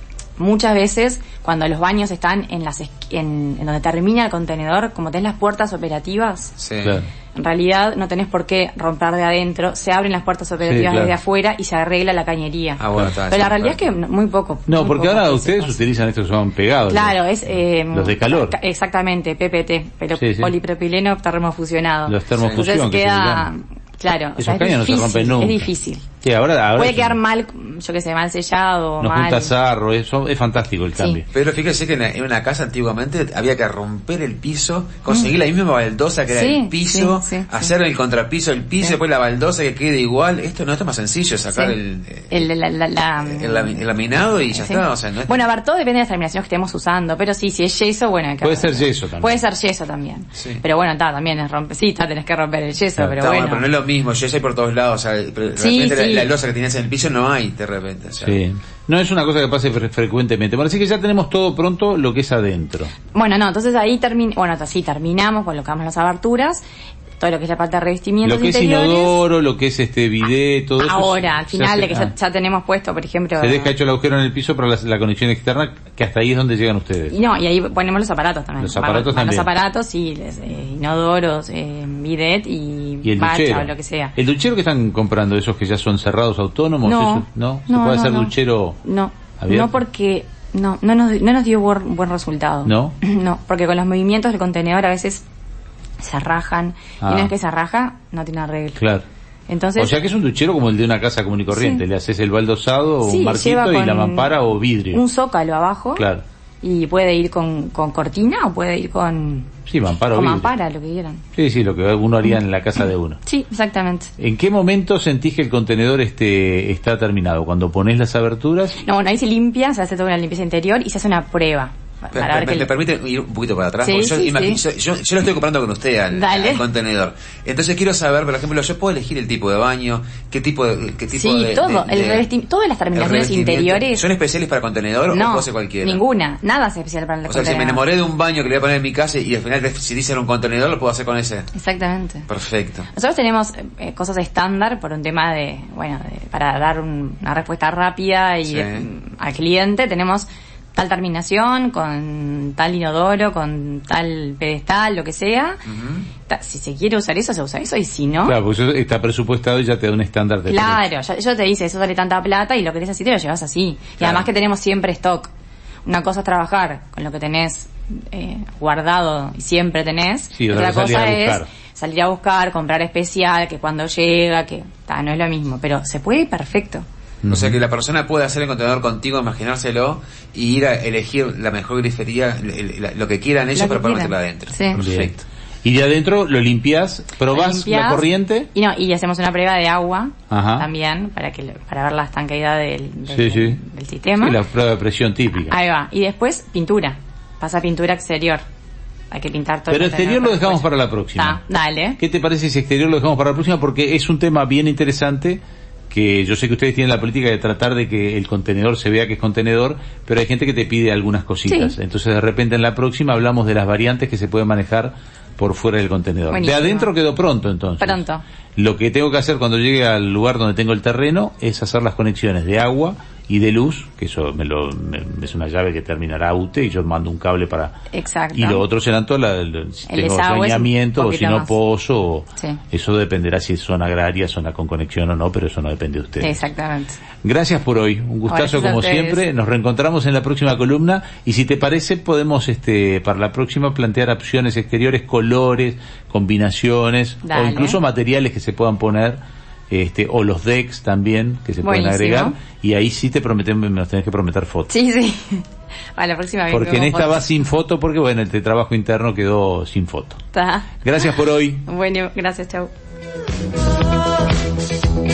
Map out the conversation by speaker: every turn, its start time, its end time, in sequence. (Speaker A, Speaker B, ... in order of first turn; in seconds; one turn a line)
Speaker A: 0.4-6.5
Speaker B: 6.6-7.0
Speaker C: 6.8-7.1
Speaker A: 7.3-15.8
Speaker C: 10.6-11.1
Speaker B: 12.8-13.8
Speaker C: 14.7-17.2
Speaker A: 16.9-26.1
Speaker C: 17.9-18.6
Speaker C: 20.2-20.5
Speaker C: 22.1-23.5
Speaker B: 22.4-22.6
Speaker C: 24.4-25.7
Speaker C: 26.2-27.2
Speaker A: 26.7-29.5
Speaker C: 29.0-31.2
Speaker B: 31.3-42.4
Speaker A: 36.3-37.6
Speaker A: 42.3-43.8
Speaker B: 43.2-45.5
Speaker A: 44.5-53.7
Speaker C: 48.4-49.4
Speaker B: 50.4-50.6
Speaker B: 53.2-58.4
Speaker A: 55.5-56.3
Speaker C: 58.2-62.9
Speaker A: 63.1-66.6
Speaker A: 67.2-69.2
Speaker C: 68.2-72.1
Speaker A: 70.8-73.7
Speaker C: 73.4-77.1
Speaker A: 77.1-84.1
Speaker C: 78.6-79.5
Speaker C: 83.0-88.8
Speaker A: 86.8-95.2
Speaker C: 89.4-89.8
Speaker C: 92.6-92.9
Speaker A: 96.0-98.8
Speaker C: 97.0-97.3
Speaker C: 98.8-99.0
Speaker A: 99.5-100.0
Speaker C: 99.8-105.0
Speaker A: 101.5-101.8
Speaker A: 103.0-104.3
Speaker A: 104.9-106.0
Speaker C: 106.0-106.2
Speaker A: 106.6-109.5
Speaker C: 109.7-110.5
Speaker A: 110.1-111.2
Speaker C: 111.3-113.2
Speaker A: 113.2-114.1
Speaker C: 114.2-118.8
Speaker A: 118.8-122.7
Speaker B: 122.1-132.2
Speaker A: 123.8-124.6
Speaker A: 126.1-126.6
Speaker A: 131.1-134.0
Speaker B: 132.9-136.0
Speaker A: 135.1-137.8
Speaker B: 137.3-141.5
Speaker A: 141.5-142.2
Speaker B: 142.3-142.9
Speaker A: 142.9-155.6
Speaker B: 148.4-148.8
Speaker B: 155.7-156.1
Speaker A: 156.3-158.4
Speaker C: 158.2-160.8
Speaker A: 160.4-165.3
Speaker B: 164.0-164.2
Speaker A: 165.8-176.8
Speaker C: 170.3-171.5
Speaker C: 177.2-177.6
Speaker B: 177.3-185.2
Speaker A: 183.5-184.8
Speaker C: 184.8-185.1
Speaker C: 185.6-188.5
Speaker A: 187.3-194.4
Speaker C: 190.3-190.7
Speaker C: 193.1-193.6
Speaker C: 194.2-195.5
Speaker A: 195.4-198.4
Speaker A: 199.1-202.0
Speaker C: 199.7-201.4
Speaker C: 202.0-218.0
Speaker A: 211.5-211.7
Speaker A: 216.3-216.9
Speaker A: 217.8-218.2
Speaker C: 218.6-227.7
Speaker A: 227.9-228.6
Speaker C: 228.3-236.4
Speaker A: 229.9-231.5
Speaker A: 236.2-237.0
Speaker C: 237.2-249.2
Speaker A: 238.3-239.2
Speaker A: 247.2-247.8
Speaker C: 249.7-254.7
Speaker A: 251.6-252.3
Speaker A: 254.7-255.4
Speaker A: 255.9-257.3
Speaker C: 256.5-260.2
Speaker A: 260.3-260.8
Speaker C: 260.8-261.6
Speaker A: 261.6-262.7